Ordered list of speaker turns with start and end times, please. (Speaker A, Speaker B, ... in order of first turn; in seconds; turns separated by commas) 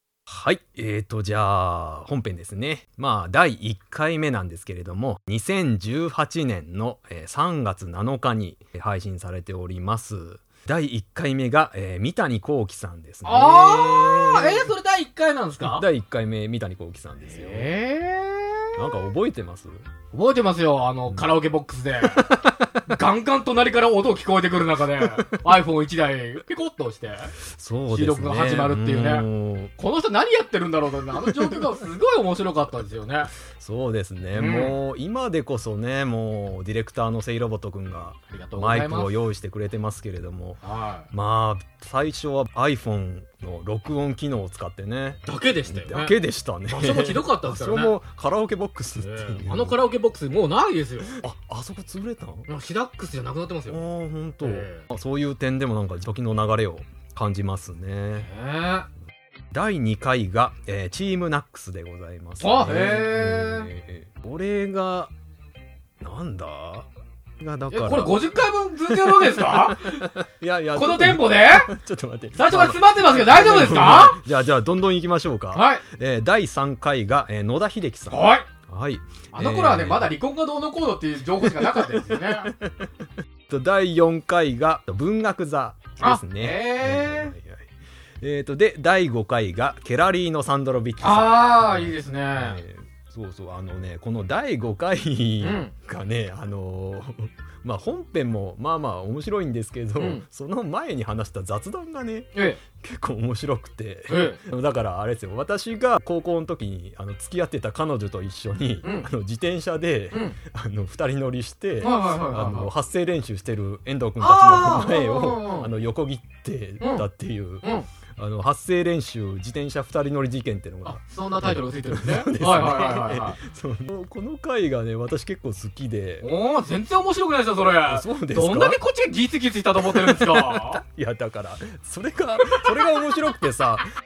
Speaker A: 0.3-14.7, Speaker B: 13.2-15.9, Speaker A: 15.6-17.7, Speaker B: 17.3-18.8, Speaker A: 18.8-19.9, Speaker B: 20.1-22.4, Speaker A: 22.1-22.7, Speaker B: 22.9-27.4, Speaker A: 27.4-29.7, Speaker B: 27.9-33.3, Speaker A: 33.6-49.8, Speaker B: 34.4-34.8, Speaker B: 38.3-39.1, Speaker B: 40.6-41.1, Speaker B: 45.2-46.2, Speaker B: 46.7-48.0, Speaker B: 49.0-51.2, Speaker A: 51.2-52.5, Speaker B: 52.5-53.8, Speaker A: 53.7-58.3, Speaker B: 54.4-54.9, Speaker B: 58.2-58.9, Speaker A: 59.5-65.1, Speaker B: 62.4-63.7, Speaker A: 66.0-66.9, Speaker A: 67.4-68.2, Speaker B: 67.7-70.1, Speaker A: 68.9-80.2, Speaker B: 70.8-71.7, Speaker B: 72.3-74.2, Speaker B: 75.5-75.8, Speaker B: 78.1-78.5, Speaker B: 79.3-82.5, Speaker A: 81.4-82.9, Speaker A: 83.5-87.7, Speaker B: 86.0-87.3, Speaker A: 88.2-126.3, Speaker B: 91.0-92.6, Speaker B: 95.4-95.7, Speaker B: 100.0-100.2, Speaker B: 102.3-102.6, Speaker B: 104.1-104.4, Speaker B: 110.1-110.4, Speaker B: 111.8-112.7, Speaker B: 114.2-115.7, Speaker B: 116.8-117.1, Speaker B: 117.6-117.9, Speaker B: 120.9-123.4, Speaker B: 126.2-130.8, Speaker A: 127.8-128.8, Speaker A: 129.8-133.8